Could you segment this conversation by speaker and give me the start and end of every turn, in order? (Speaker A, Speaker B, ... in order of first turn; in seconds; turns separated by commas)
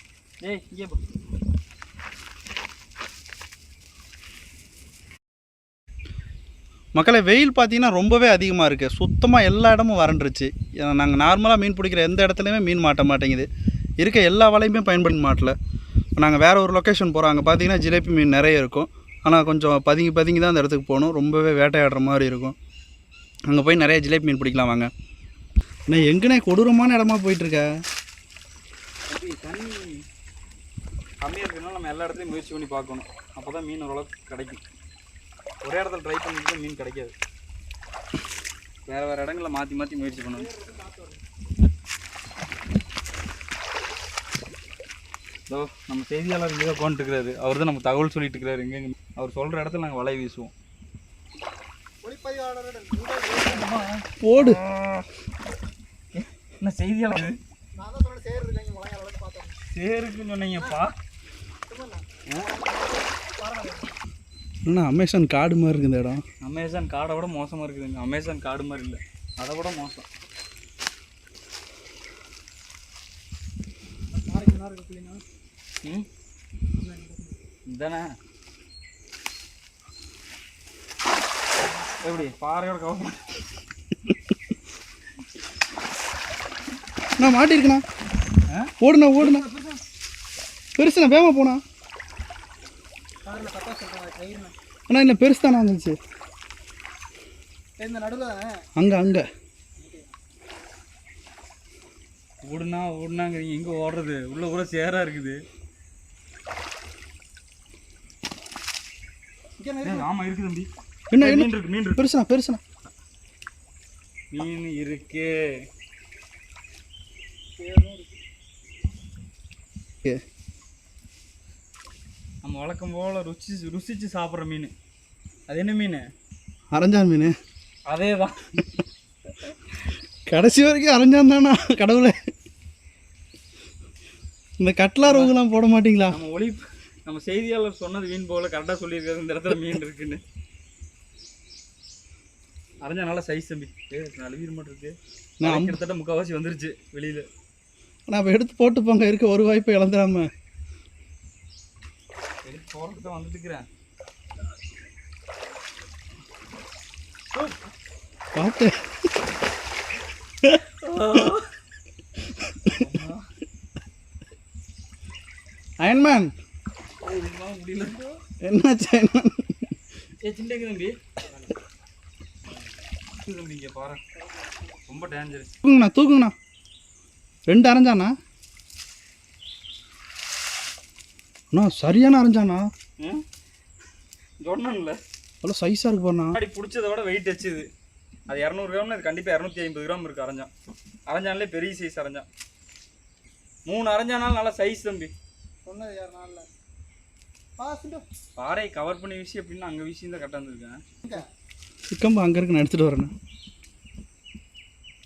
Speaker A: 0.4-1.0, Speaker B: 6.9-13.5, Speaker B: 14.0-15.5, Speaker B: 16.2-22.6, Speaker B: 23.5-24.9, Speaker B: 25.9-27.7, Speaker A: 29.1-30.1, Speaker A: 31.2-34.6, Speaker A: 35.6-37.1, Speaker A: 38.9-40.5, Speaker C: 40.3-41.2, Speaker A: 45.5-50.5, Speaker C: 52.0-53.8, Speaker A: 53.4-55.0, Speaker B: 54.2-54.6, Speaker A: 56.1-57.4, Speaker C: 57.8-59.6, Speaker A: 59.7-61.0, Speaker C: 61.7-63.9, Speaker B: 64.7-66.2, Speaker A: 66.4-70.1, Speaker C: 74.1-75.2, Speaker C: 76.8-77.4, Speaker A: 77.7-78.1, Speaker A: 82.0-83.4, Speaker B: 87.2-87.8, Speaker A: 88.5-89.8, Speaker B: 88.8-89.5, Speaker B: 90.8-91.6, Speaker C: 93.2-94.5, Speaker B: 94.9-96.0, Speaker C: 97.8-98.7, Speaker B: 98.8-99.2, Speaker C: 99.8-100.2, Speaker A: 102.4-105.4, Speaker C: 109.6-110.1, Speaker A: 109.8-110.7, Speaker B: 111.1-112.6, Speaker A: 111.2-112.0, Speaker A: 114.3-115.7, Speaker C: 117.6-118.2, Speaker A: 122.4-124.7, Speaker A: 125.5-126.0, Speaker B: 126.7-127.3, Speaker A: 127.9-128.7, Speaker B: 130.3-132.1, Speaker B: 134.6-136.2, Speaker A: 135.0-135.3, Speaker A: 136.1-140.2, Speaker A: 142.8-147.2, Speaker B: 145.4-145.8, Speaker B: 148.1-150.3, Speaker A: 152.4-153.6, Speaker B: 158.3-158.7, Speaker A: 160.5-161.5, Speaker B: 162.4-162.8, Speaker A: 162.7-163.2, Speaker B: 165.8-166.3, Speaker A: 167.0-168.2, Speaker B: 168.4-169.7, Speaker A: 170.2-171.0, Speaker A: 173.2-174.0, Speaker A: 174.8-175.5, Speaker B: 175.6-176.3, Speaker B: 177.5-178.1, Speaker B: 181.5-182.7, Speaker A: 184.4-185.0, Speaker B: 185.4-186.4, Speaker A: 186.3-187.7, Speaker A: 188.3-190.5, Speaker A: 191.1-192.2, Speaker A: 193.7-195.1, Speaker C: 195.7-196.5, Speaker C: 197.6-198.0, Speaker A: 198.4-200.8, Speaker B: 201.9-203.1